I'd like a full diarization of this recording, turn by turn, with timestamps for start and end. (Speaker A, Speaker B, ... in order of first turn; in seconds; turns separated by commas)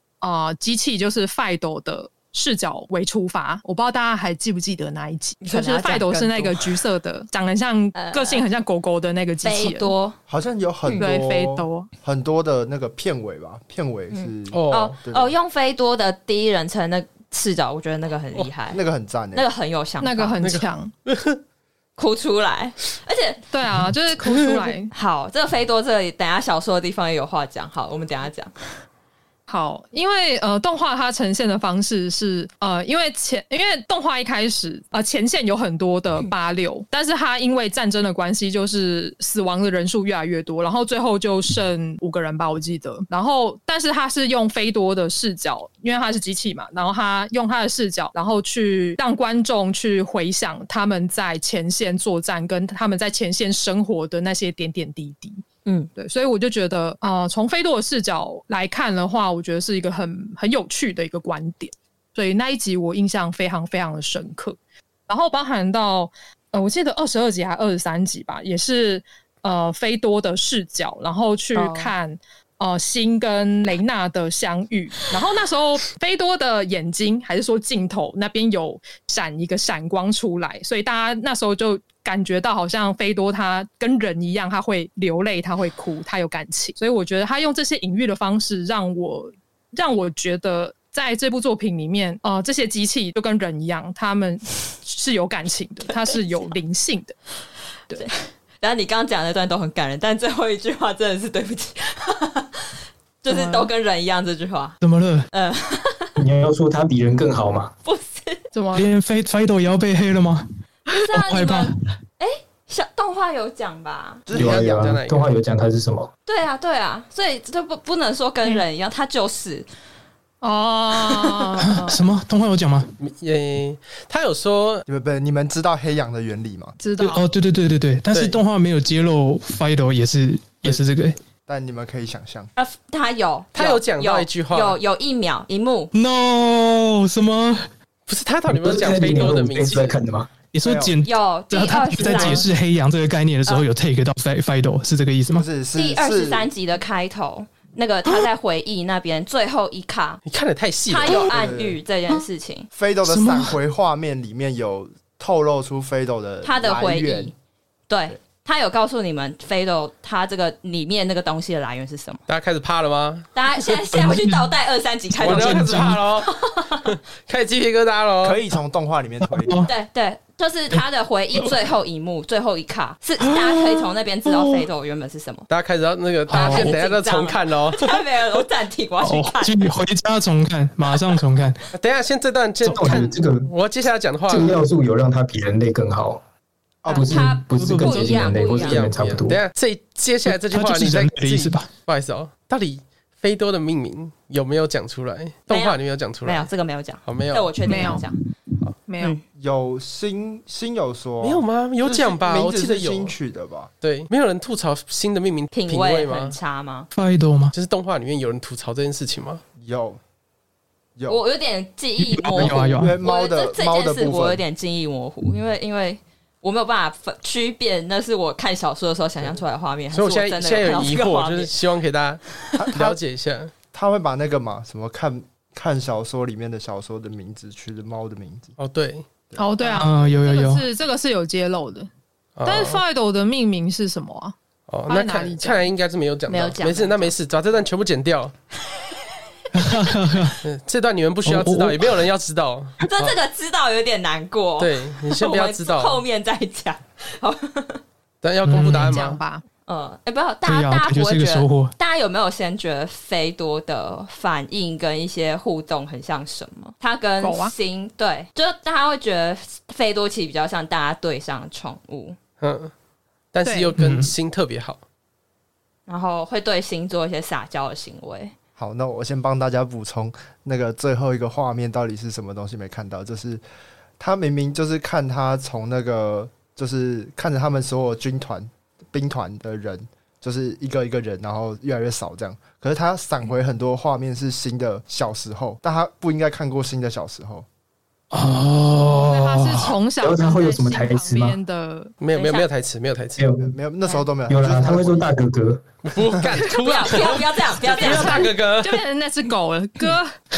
Speaker A: 0.2-9.9, Speaker B: 5.4-6.7, Speaker B: 8.0-8.4, Speaker B: 9.4-10.2, Speaker C: 10.3-15.3, Speaker B: 10.8-11.1, Speaker A: 11.0-11.9, Speaker B: 14.1-18.8, Speaker D: 14.5-15.0, Speaker C: 18.7-19.5, Speaker B: 19.3-20.4, Speaker A: 20.0-20.9, Speaker D: 20.4-21.4, Speaker B: 22.0-23.5, Speaker A: 23.5-24.9, Speaker B: 24.9-28.5, Speaker A: 29.5-55.4, Speaker B: 55.7-55.9, Speaker A: 56.0-64.6, Speaker A: 65.1-97.2, Speaker B: 71.5-71.9, Speaker B: 97.9-104.8, Speaker A: 103.3-103.7, Speaker E: 104.8-105.3, Speaker B: 105.3-106.2, Speaker F: 106.2-107.7, Speaker B: 107.8-108.4, Speaker A: 108.5-108.9, Speaker E: 108.7-110.5, Speaker B: 110.9-114.2, Speaker E: 111.1-111.7, Speaker C: 114.3-115.0, Speaker F: 114.3-116.1, Speaker D: 114.3-115.3, Speaker B: 116.3-119.7, Speaker A: 120.4-122.0, Speaker E: 121.6-122.9, Speaker D: 123.0-124.8, Speaker C: 124.9-126.8, Speaker A: 126.8-127.2, Speaker E: 127.0-131.2, Speaker C: 131.5-132.5, Speaker B: 132.6-135.9, Speaker D: 133.6-134.8, Speaker E: 135.9-137.7, Speaker D: 138.1-140.0, Speaker F: 138.5-140.3, Speaker E: 140.5-145.5, Speaker C: 140.6-141.0, Speaker B: 141.0-142.5, Speaker C: 142.1-142.4, Speaker C: 145.3-146.5, Speaker B: 145.7-150.2, Speaker D: 150.3-151.3, Speaker B: 150.9-152.7, Speaker C: 151.1-151.8, Speaker C: 152.7-157.3, Speaker E: 153.1-153.6, Speaker B: 156.4-157.3, Speaker B: 157.9-162.2, Speaker D: 162.3-163.3, Speaker B: 163.3-167.0, Speaker E: 163.7-164.5, Speaker E: 165.1-166.1, Speaker D: 165.2-166.3, Speaker D: 166.8-168.4, Speaker C: 168.2-169.7, Speaker E: 169.2-169.7, Speaker B: 169.7-175.5, Speaker E: 173.2-174.7, Speaker D: 175.5-178.1, Speaker E: 176.3-176.8, Speaker B: 176.3-179.7, Speaker E: 179.0-181.6, Speaker D: 181.7-184.6, Speaker E: 182.7-183.1, Speaker F: 182.7-183.5, Speaker F: 184.3-186.2, Speaker C: 186.8-187.3, Speaker F: 186.9-189.4, Speaker B: 186.9-188.9, Speaker E: 187.5-188.3, Speaker D: 188.3-196.5, Speaker E: 190.3-191.7, Speaker B: 195.5-198.2, Speaker D: 197.1-197.5, Speaker A: 197.7-198.0, Speaker A: 198.9-199.2, Speaker C: 199.3-203.7, Speaker D: 201.2-203.2, Speaker D: 203.8-206.4, Speaker B: 205.5-206.9, Speaker E: 206.9-207.5, Speaker D: 207.5-209.4, Speaker C: 209.6-210.0, Speaker C: 211.0-211.2, Speaker B: 211.1-221.5, Speaker E: 212.0-213.0, Speaker C: 212.3-214.4, Speaker D: 219.9-223.5, Speaker C: 222.6-223.0, Speaker C: 223.7-228.6, Speaker D: 228.6-229.1, Speaker C: 229.3-229.8, Speaker A: 229.4-231.9, Speaker E: 229.8-230.7, Speaker D: 232.4-232.8, Speaker A: 232.4-234.3, Speaker D: 234.7-238.3, Speaker A: 234.9-235.7, Speaker B: 236.3-237.1, Speaker E: 239.5-240.4, Speaker D: 240.4-243.2, Speaker E: 241.2-242.0, Speaker B: 242.8-247.8, Speaker D: 244.6-246.0, Speaker D: 248.2-249.2, Speaker E: 248.4-249.0, Speaker A: 248.5-249.4, Speaker B: 249.7-262.2, Speaker E: 250.4-251.8, Speaker A: 257.2-257.5, Speaker D: 262.4-262.7, Speaker D: 263.3-264.8, Speaker A: 263.4-263.7, Speaker E: 263.8-264.1, Speaker B: 265.9-268.3, Speaker C: 268.6-273.4, Speaker C: 274.0-287.5, Speaker E: 288.1-289.8, Speaker A: 288.9-291.9, Speaker F: 290.0-291.4, Speaker D: 292.0-293.2, Speaker B: 292.1-292.5, Speaker F: 293.2-293.6, Speaker C: 293.4-295.1, Speaker F: 294.3-295.6, Speaker D: 295.9-298.8, Speaker B: 296.5-298.4, Speaker A: 297.8-300.1